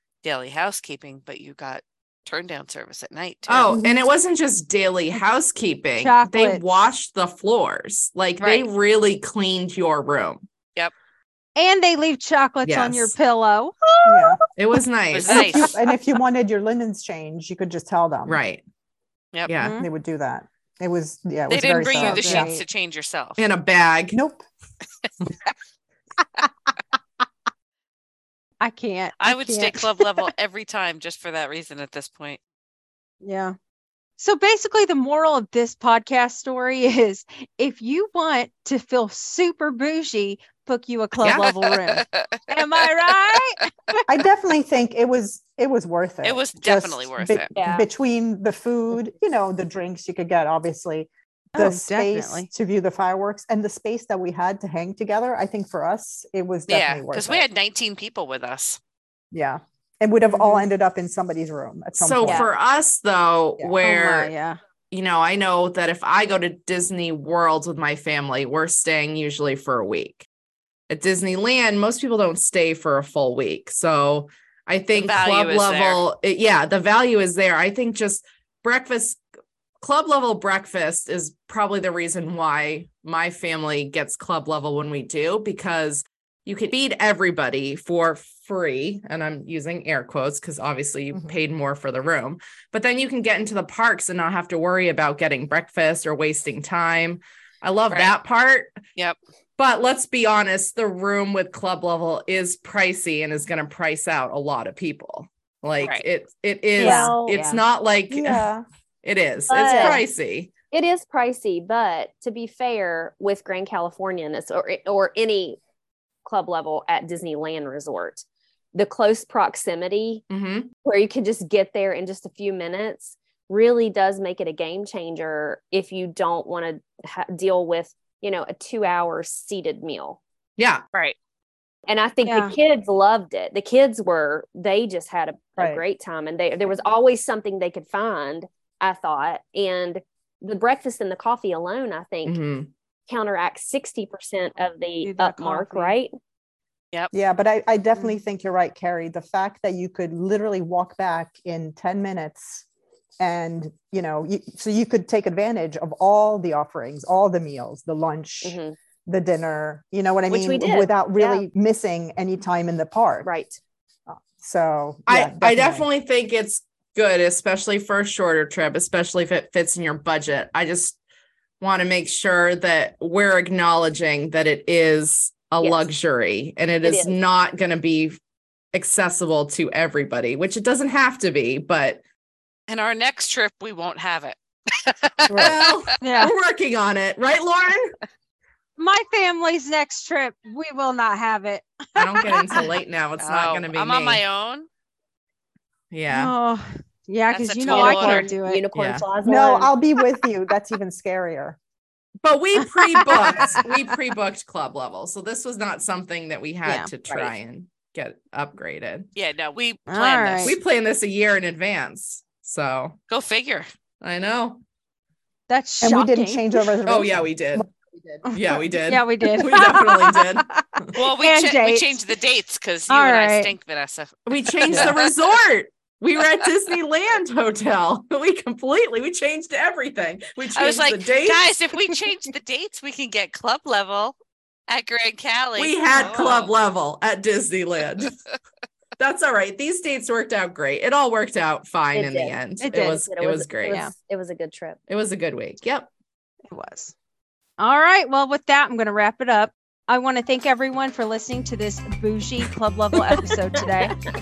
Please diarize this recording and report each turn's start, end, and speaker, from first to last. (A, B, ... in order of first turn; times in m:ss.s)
0:00.2-0:03.7 A
0:03.5-0:10.4 B
0:03.7-0:04.0 C
0:06.0-0:06.6 D
0:08.4-0:08.7 A
0:11.6-0:14.4 D
0:12.6-0:13.1 B
0:14.1-0:14.4 C
0:14.6-0:15.7 B
0:15.1-0:15.8 A
0:15.3-0:18.4 C
0:18.3-0:18.6 B
0:19.5-0:19.8 B
0:19.6-0:19.9 D
0:19.8-0:22.6 C
0:21.5-0:23.4 A
0:21.9-0:22.6 D
0:23.4-0:24.2 B
0:24.1-0:24.5 C
0:28.6-0:30.3 D
0:29.2-0:32.4 A
0:33.2-0:33.6 D
0:34.2-0:44.0 D
0:41.2-0:41.6 B
0:41.7-0:42.8 A
0:44.1-0:57.4 C
0:46.2-0:47.5 A
0:47.6-0:47.9 E
0:51.5-0:52.5 D
0:56.7-0:58.8 A
0:59.3-1:02.5 C
1:00.3-1:00.6 D
1:02.0-1:04.3 B
1:02.2-1:02.5 E
1:03.8-1:04.6 D
1:04.9-1:10.3 B
1:10.9-1:19.2 B
1:15.0-1:16.0 A
1:19.8-1:38.8 B
1:37.9-1:38.2 A
1:39.6-1:48.5 B
1:46.8-1:47.6 E
1:46.8-1:47.2 C
1:48.1-1:48.6 C
1:49.0-1:50.5 B
1:49.5-1:50.1 E
1:49.6-1:50.0 C
1:50.7-1:55.6 E
1:56.2-2:00.2 E
2:00.3-2:00.7 B
2:00.8-2:10.2 E
2:10.6-2:10.8 B
2:11.9-2:22.4 E
2:12.2-2:12.6 D
2:15.6-2:15.8 C
2:22.2-2:22.7 B
2:23.1-2:26.1 E
2:25.0-2:26.0 D
2:27.1-2:32.6 C
2:33.2-2:43.3 C
2:38.4-2:38.8 E
2:40.3-2:41.4 E
2:43.2-2:43.6 E
2:44.1-2:45.9 C
2:45.1-2:51.0 B
2:51.6-2:58.2 B
2:55.6-2:55.9 E
2:56.8-2:57.2 E
2:58.7-3:02.0 B
3:02.7-3:05.9 A
3:05.3-3:06.3 D
3:05.4-3:08.0 B
3:08.8-3:12.7 D
3:12.0-3:14.2 B
3:13.2-3:14.7 A
3:15.9-3:16.3 B
3:16.1-3:18.6 D
3:17.3-3:18.3 A
3:17.7-3:19.7 E
3:18.7-3:19.1 B
3:19.2-3:21.6 C
3:22.2-3:29.1 B
3:22.6-3:23.7 D
3:26.6-3:26.9 D
3:29.2-3:30.6 A
3:29.9-3:30.6 D
3:30.4-3:33.0 B
3:33.1-3:33.7 A
3:34.0-3:34.6 B
3:35.5-3:36.4 D
3:35.8-3:38.2 C
3:36.9-3:37.7 B
3:38.3-3:42.1 D
3:38.3-3:40.9 B
3:41.0-3:45.1 A
3:42.9-3:43.5 D
3:44.3-3:51.5 B
3:50.5-3:54.2 A
3:54.7-3:56.5 A
3:55.6-3:58.2 B
3:59.0-4:03.8 B
4:01.9-4:04.8 E
4:02.6-4:03.0 D
4:03.7-4:03.9 D
4:04.9-4:05.9 B
4:06.5-4:07.0 D
4:07.6-4:14.0 D